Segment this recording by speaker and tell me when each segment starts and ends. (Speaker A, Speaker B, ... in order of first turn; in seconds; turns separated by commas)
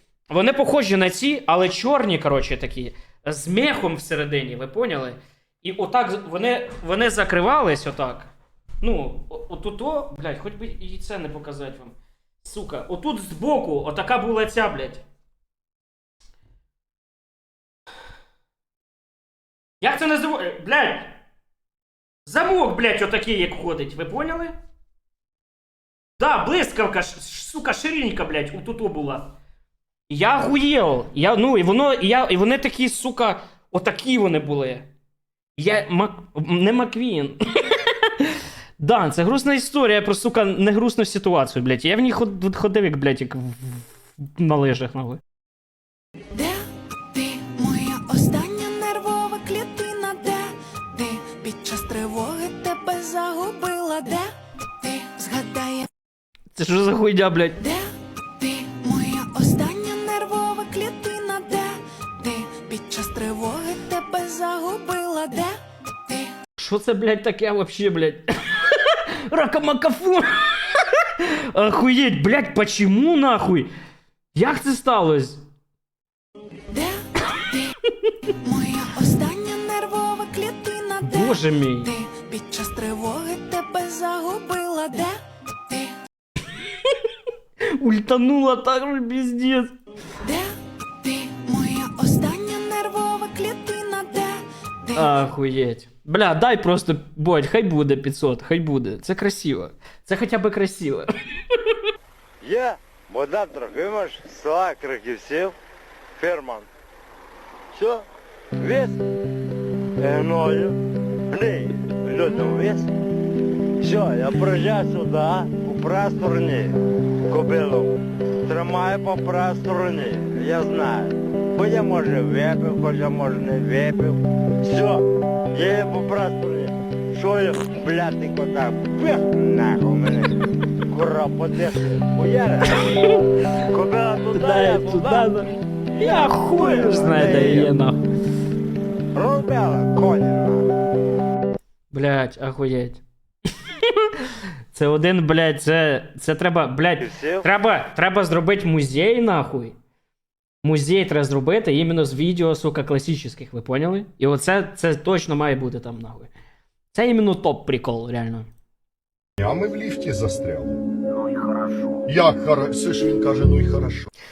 Speaker A: 0.3-8.3, Speaker A: 8.8-15.0, Speaker A: 19.8-21.2, Speaker A: 22.2-24.5, Speaker A: 26.2-29.3, Speaker A: 30.1-34.9, Speaker A: 35.6-45.2, Speaker B: 46.3-55.9, Speaker A: 56.5-57.6, Speaker B: 57.6-66.4, Speaker A: 66.6-73.7, Speaker A: 74.3-75.4, Speaker B: 76.7-77.7, Speaker B: 78.4-86.0, Speaker A: 81.0-81.9, Speaker A: 87.8-89.7, Speaker B: 90.2-95.2, Speaker A: 94.9-101.1, Speaker C: 102.4-105.5, Speaker C: 106.2-106.7, Speaker C: 107.7-108.0, Speaker C: 108.6-109.0, Speaker C: 110.0-110.8, Speaker C: 111.3-112.9, Speaker C: 113.8-116.8, Speaker C: 117.3-135.3, Speaker A: 134.3-138.0, Speaker C: 136.0-137.7, Speaker C: 139.1-140.7, Speaker A: 141.9-143.0, Speaker A: 144.7-149.7, Speaker C: 147.0-147.4, Speaker A: 150.6-156.3, Speaker A: 156.9-158.5, Speaker D: 159.4-160.8, Speaker D: 162.1-164.1